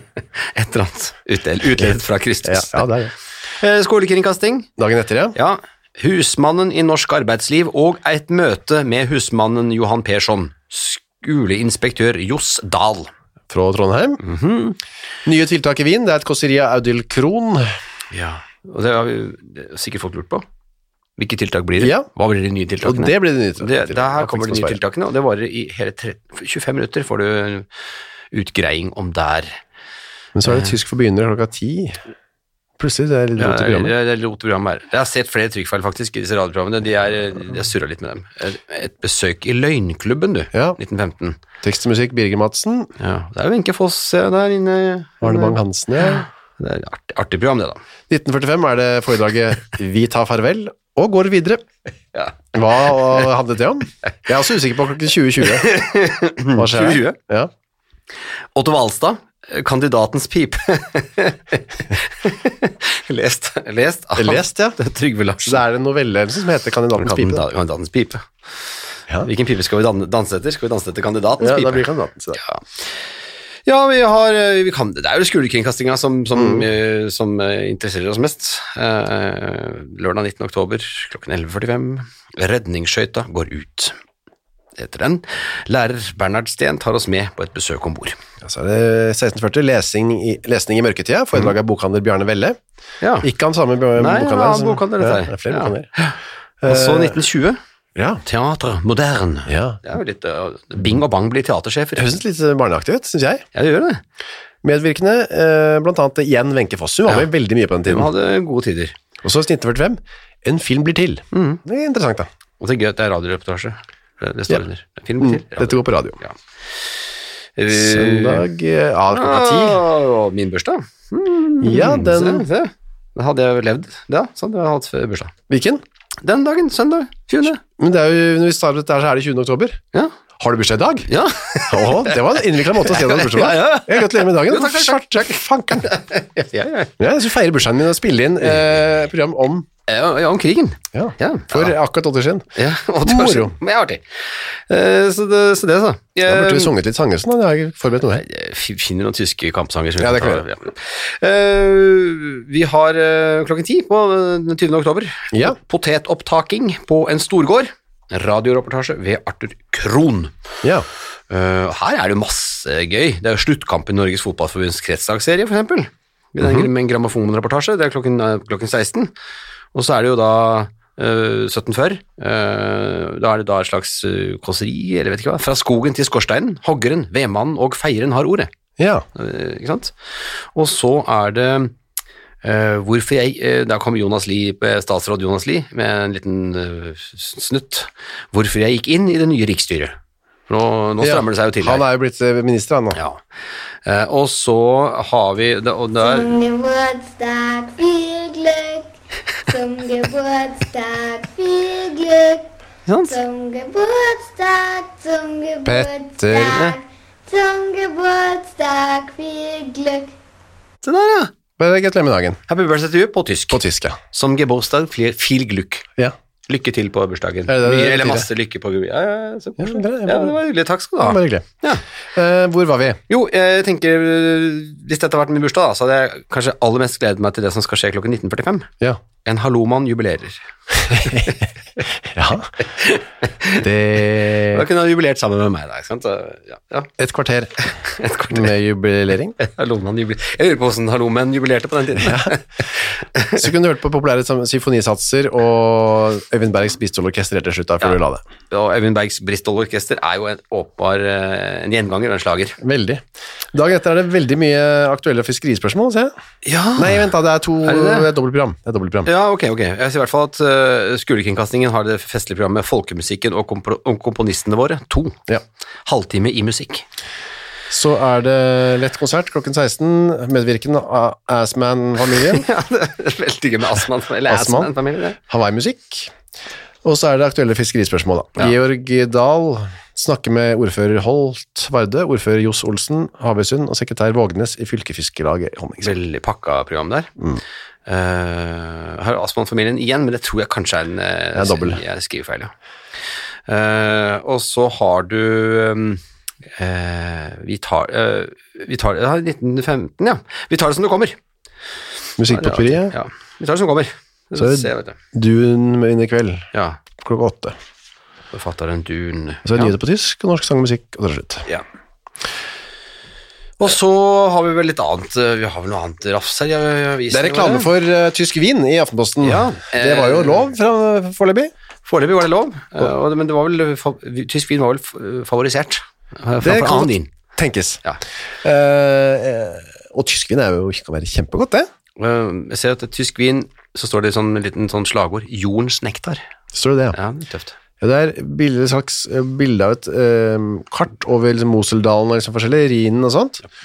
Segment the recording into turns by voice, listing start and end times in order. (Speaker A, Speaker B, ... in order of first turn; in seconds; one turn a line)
Speaker A: 0.4-2.9
Speaker B: 2.4-3.1
Speaker A: 3.6-4.7
Speaker B: 4.8-5.4
Speaker A: 5.3-13.1
Speaker B: 13.5-14.2
Speaker A: 14.2-14.8
Speaker B: 15.3-17.7
Speaker A: 18.1-20.5
Speaker A: 21.2-27.7
Speaker B: 21.8-22.1
Speaker B: 22.8-24.8
Speaker A: 28.3-29.6
Speaker B: 30.4-32.0
Speaker A: 30.5-30.7
Speaker B: 32.8-33.9
Speaker A: 33.4-41.4
Speaker B: 40.5-40.8
Speaker B: 41.6-42.9
Speaker A: 43.0-47.8
Speaker B: 45.2-46.2
Speaker B: 48.1-51.6
Speaker B: 52.5-55.7
Speaker A: 52.9-53.2
Speaker A: 55.4-57.2
Speaker B: 56.5-57.5
Speaker A: 58.5-65.6
Speaker B: 64.2-64.8
Speaker B: 65.4-67.4
Speaker A: 67.0-68.3
Speaker A: 69.2-72.9
Speaker B: 71.4-72.4
Speaker A: 73.7-84.0
Speaker B: 76.3-76.7
Speaker A: 84.8-88.2
Speaker B: 88.4-92.6
Speaker A: 93.0-93.3
Speaker B: 93.2-95.9
Speaker A: 94.0-97.6
Speaker B: 96.6-97.2
Speaker B: 98.0-98.2
Speaker A: 98.2-102.1
Speaker B: 99.5-99.8
Speaker B: 102.0-103.4
Speaker A: 103.5-104.0
Speaker B: 104.6-108.1
Speaker A: 107.9-109.0
Speaker B: 109.2-112.3
Speaker A: 111.3-111.6
Speaker A: 112.6-116.4
Speaker B: 115.2-116.2
Speaker A: 117.6-118.5
Speaker B: 117.7-119.8
Speaker A: 119.1-125.3
Speaker B: 121.6-122.5
Speaker B: 125.5-125.8
Speaker A: 126.2-127.6
Speaker B: 127.8-129.8
Speaker B: 130.4-131.1
Speaker A: 131.1-137.0
Speaker B: 131.7-135.9
Speaker B: 137.0-139.7
Speaker A: 139.9-141.8
Speaker B: 140.9-142.5
Speaker A: 142.6-144.0
Speaker B: 143.0-143.6
Speaker A: 144.7-146.7
Speaker B: 146.2-148.2
Speaker A: 148.0-160.3
Speaker B: 150.0-150.5
Speaker A: 161.3-169.1
Speaker B: 166.4-166.7
Speaker A: 169.7-178.5
Speaker B: 178.8-179.0
Speaker A: 179.2-179.9
Speaker A: 180.6-181.8
Speaker A: 182.4-190.0
Speaker A: 190.5-191.8
Speaker B: 191.0-193.0
Speaker A: 192.9-193.2
Speaker A: 193.8-196.3
Speaker C: 196.0-198.9
Speaker C: 199.5-202.5
Speaker A: 202.9-203.2
Speaker C: 203.1-210.1
Speaker B: 205.7-206.6
Speaker A: 210.8-211.3
Speaker B: 211.6-212.4
Speaker A: 212.5-213.6
Speaker B: 213.5-214.0
Speaker A: 214.1-215.9
Speaker A: 216.5-221.8
Speaker B: 217.5-218.3
Speaker B: 219.6-220.4
Speaker B: 221.0-221.5
Speaker B: 222.2-223.0
Speaker A: 223.1-228.7
Speaker A: 229.2-231.5
Speaker B: 230.9-231.4
Speaker B: 232.0-232.5
Speaker A: 232.6-233.7
Speaker B: 233.6-234.7
Speaker A: 234.5-236.9
Speaker B: 237.0-237.5
Speaker A: 237.7-238.5
Speaker B: 238.3-239.4
Speaker A: 239.4-243.4
Speaker B: 242.0-242.3
Speaker B: 243.4-248.2
Speaker A: 248.5-252.6
Speaker B: 252.6-256.1
Speaker A: 256.4-257.1
Speaker B: 256.8-259.1
Speaker A: 257.6-258.1
Speaker A: 259.1-265.2
Speaker A: 265.9-266.9
Speaker B: 267.7-272.5
Speaker A: 272.1-275.2
Speaker B: 274.3-276.1
Speaker B: 276.8-285.9
Speaker A: 285.8-287.1
Speaker A: 287.9-292.5
Speaker B: 291.4-291.8
Speaker A: 293.5-296.0
Speaker A: 296.6-301.2
Speaker B: 302.2-302.9
Speaker A: 302.3-305.0
Speaker B: 304.4-307.6
Speaker A: 306.5-306.8
Speaker A: 308.3-309.7
Speaker B: 309.4-311.4
Speaker A: 313.6-317.7
Speaker B: 317.1-321.5
Speaker A: 319.2-320.5
Speaker A: 321.9-327.1
Speaker B: 326.4-327.8
Speaker B: 328.4-331.7
Speaker A: 332.0-336.2
Speaker B: 336.5-337.0
Speaker A: 336.9-337.6
Speaker B: 337.8-343.4